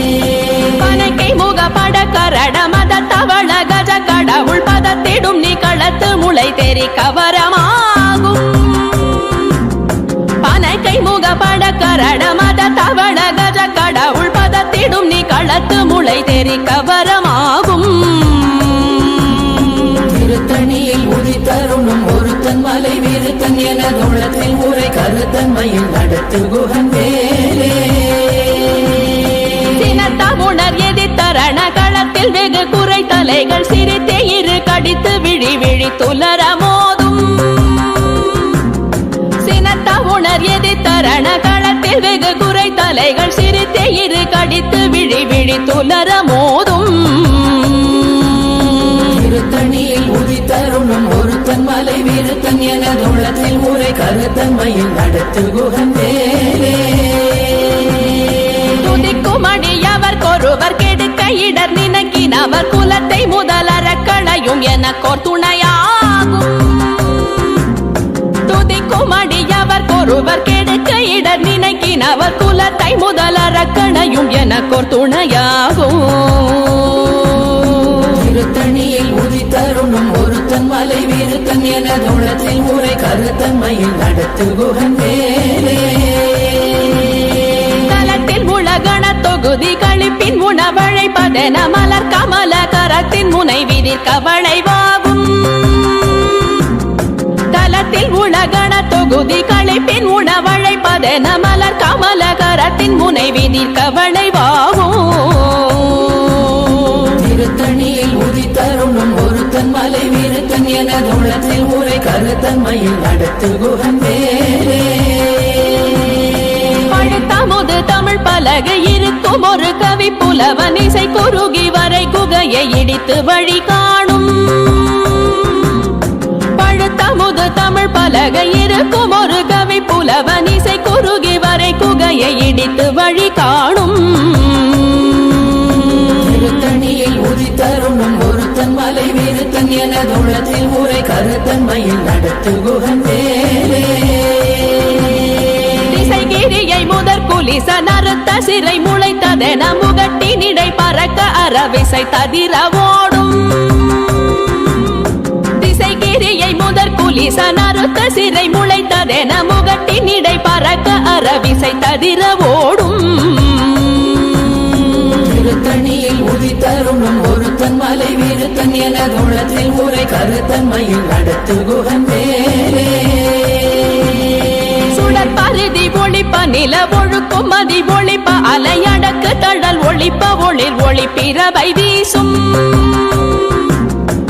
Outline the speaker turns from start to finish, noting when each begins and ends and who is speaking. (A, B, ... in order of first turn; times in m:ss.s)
0:00.7-0:09.6 A
0:10.4-0:20.0 A
0:20.0-0:28.3 B
0:29.6-0:38.6 A
0:39.4-0:48.9 A
0:49.1-0:57.3 B
0:58.7-1:07.6 A
1:08.4-1:18.1 A
1:18.1-1:26.4 B
1:27.7-1:36.7 A
1:37.5-1:47.2 A
1:47.2-1:55.3 B
1:56.8-2:05.9 A
2:06.5-2:15.5 A
2:16.2-2:24.4 B
2:25.7-2:44.7 A
2:45.2-2:53.4 B
2:54.9-3:03.7 A